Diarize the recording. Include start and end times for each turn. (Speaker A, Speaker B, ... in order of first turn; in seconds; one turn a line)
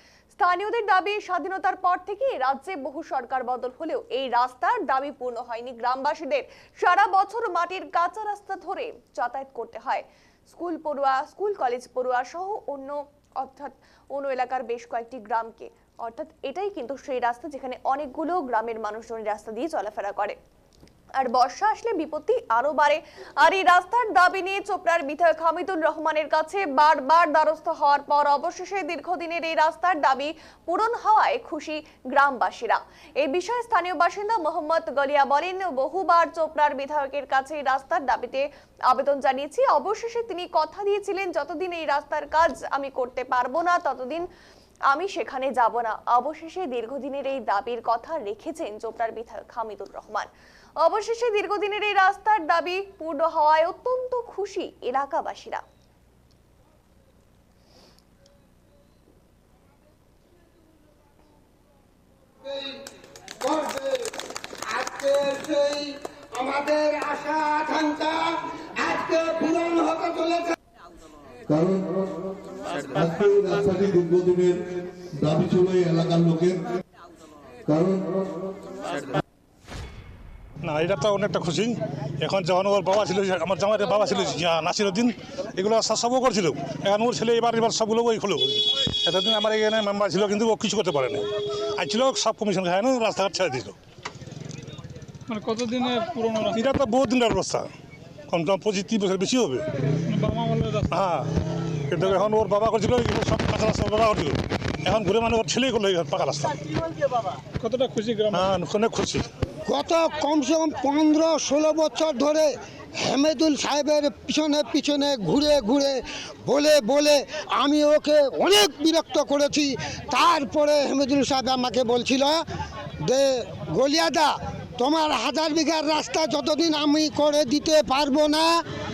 Speaker A: 0.3-20.4
Speaker A: 21.2-44.3
Speaker A: 44.9-50.3
Speaker A: 50.8-55.6
Speaker B: 62.4-62.8
Speaker B: 63.4-64.1
Speaker B: 64.7-70.5
Speaker C: 71.5-72.1
Speaker C: 72.9-76.7
Speaker C: 77.7-78.2
Speaker D: 80.6-93.8
Speaker E: 95.3-96.6
Speaker D: 96.5-97.7
Speaker D: 98.3-99.7
Speaker E: 100.0-100.9
Speaker D: 100.9-101.3
Speaker D: 101.9-106.6
Speaker E: 107.6-108.5
Speaker D: 108.3-109.3
Speaker B: 109.7-122.5
Speaker B: 123.0-128.6